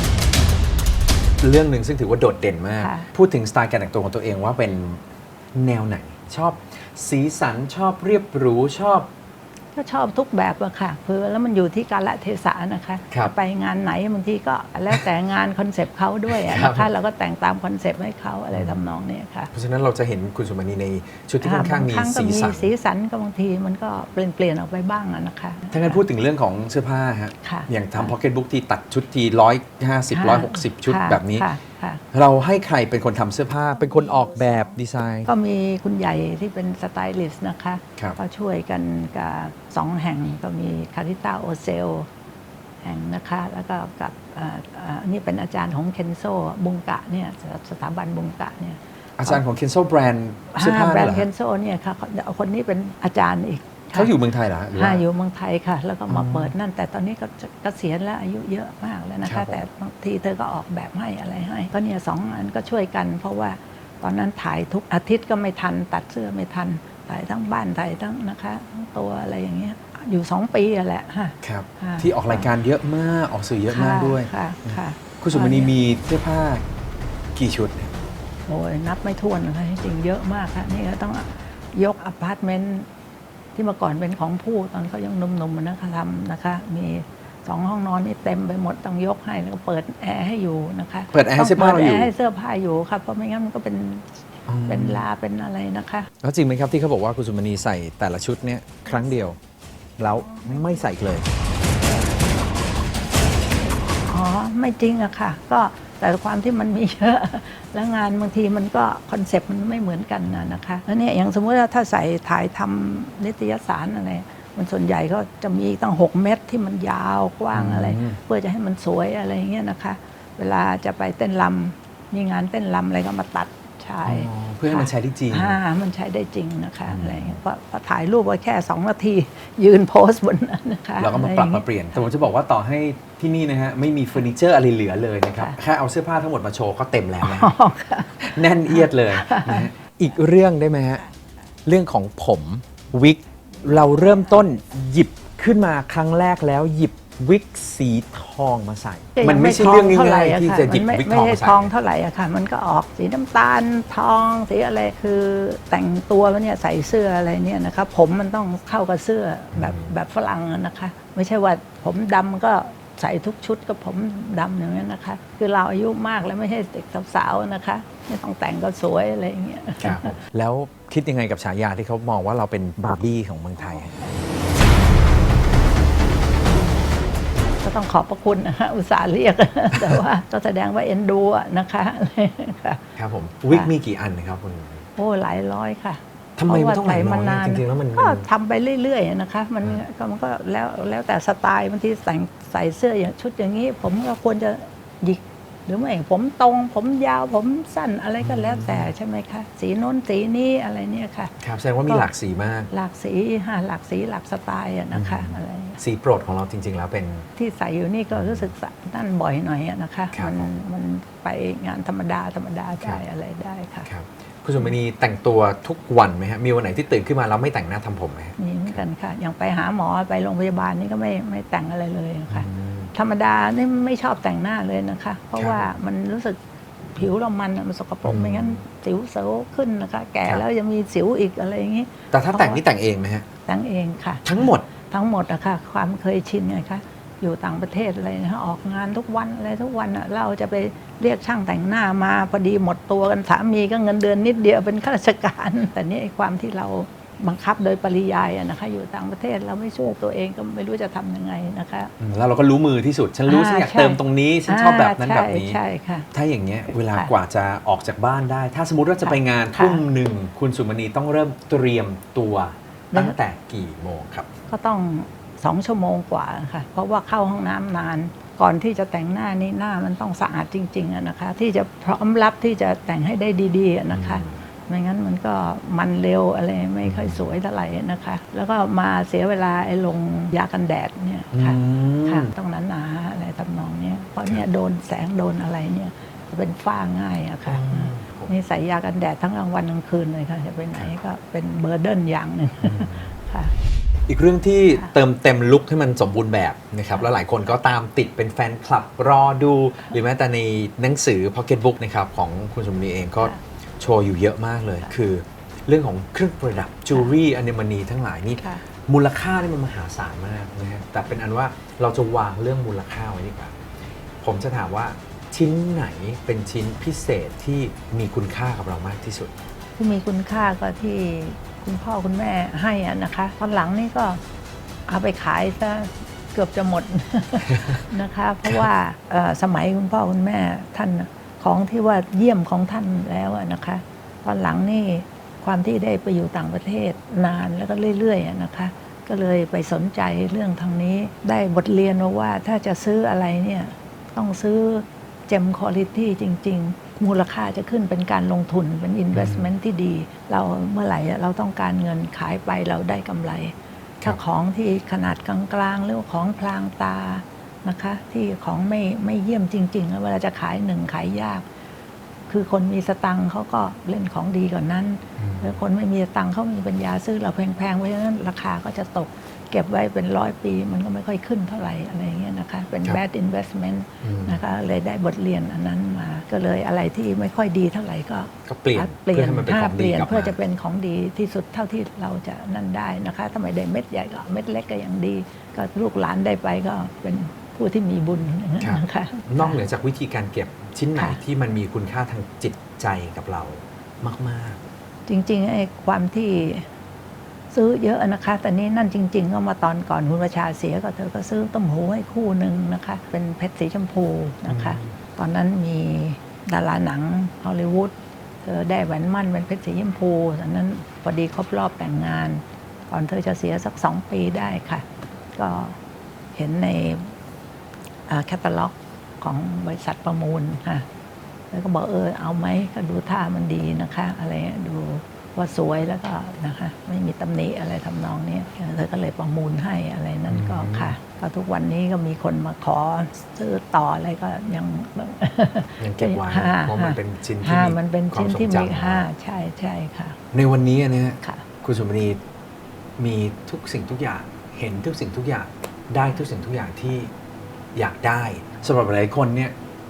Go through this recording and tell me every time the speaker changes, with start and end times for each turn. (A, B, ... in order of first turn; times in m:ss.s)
0:01.4-0:05.0 A
0:02.8-0:03.1 B
0:05.5-0:09.1 A
0:09.7-0:19.5 B
0:16.3-0:16.9 A
0:18.5-0:18.8 A
0:19.5-0:22.7 A
0:21.4-0:26.0 B
0:25.7-0:31.5 A
0:27.4-0:28.1 B
0:30.1-0:32.0 B
0:32.1-0:35.3 A
0:33.7-0:42.1 B
0:42.8-0:49.4 B
0:49.2-0:51.3 A
0:50.5-0:54.1 B
0:53.9-0:55.0 A
0:54.7-1:12.5 B
0:56.1-0:56.5 A
0:59.2-0:59.6 A
1:11.4-1:16.6 A
1:13.7-1:15.7 B
1:17.3-1:18.0 A
1:18.5-1:22.9 B
1:23.5-1:34.1 B
1:31.1-1:32.1 A
1:34.5-1:35.0 A
1:34.7-1:36.1 B
1:36.2-1:39.4 A
1:40.0-1:41.3 A
1:40.0-1:40.7 B
1:44.0-2:12.1 B
1:57.5-1:58.2 A
2:04.0-2:05.6 A
2:06.9-2:07.4 A
2:11.0-2:17.5 A
2:17.2-2:19.7 B
2:18.2-2:21.0 A
2:21.0-2:21.4 B
2:21.6-2:31.7 A
2:23.6-2:24.4 B
2:29.2-2:50.2 B
2:39.5-2:39.9 A
2:49.8-2:54.1 A
2:57.6-3:02.8 B
3:03.0-3:04.8 A
3:05.0-3:21.3 B
3:06.4-3:08.2 A
3:18.2-3:18.9 A
3:21.4-3:22.7 A
3:22.7-3:25.8 B
3:24.9-3:27.3 A
3:27.4-3:33.9 B
3:28.1-3:28.5 A
3:30.1-3:30.5 A
3:33.9-3:38.8 A
3:38.4-3:46.4 B
3:42.3-3:42.9 A
3:45.4-3:45.6 A
3:46.9-3:52.6 B
3:48.0-3:48.6 A
3:52.1-3:53.2 A
3:53.4-4:11.9 B
3:54.2-3:54.7 A
4:12.0-4:15.6 A
4:13.3-4:16.1 B
4:16.1-4:24.3 A
4:19.0-4:19.8 B
4:24.5-4:53.5 B
4:33.9-4:34.4 A
4:36.8-4:37.2 A
4:41.3-4:42.3 A
4:47.4-4:48.3 A
4:52.6-4:53.1 A
4:54.1-5:13.5 A
5:08.4-5:08.6 B
5:14.2-5:19.3 A
5:19.8-5:24.2 B
5:24.9-6:01.4 B
5:49.1-5:49.5 A
6:02.3-6:29.6 B
6:05.2-6:05.5 A
6:14.0-6:14.4 A
6:18.4-6:20.4 A
6:28.6-6:34.6 A
6:35.1-6:36.6 B
6:37.5-6:55.8 B
6:44.5-6:44.9 A
6:56.3-6:57.1 B
6:58.1-7:00.8 B
7:01.5-7:20.2 B
7:10.3-7:11.0 A
7:15.8-7:19.1 A
7:20.3-7:22.2 A
7:23.0-7:27.1 A
7:27.7-7:29.5 A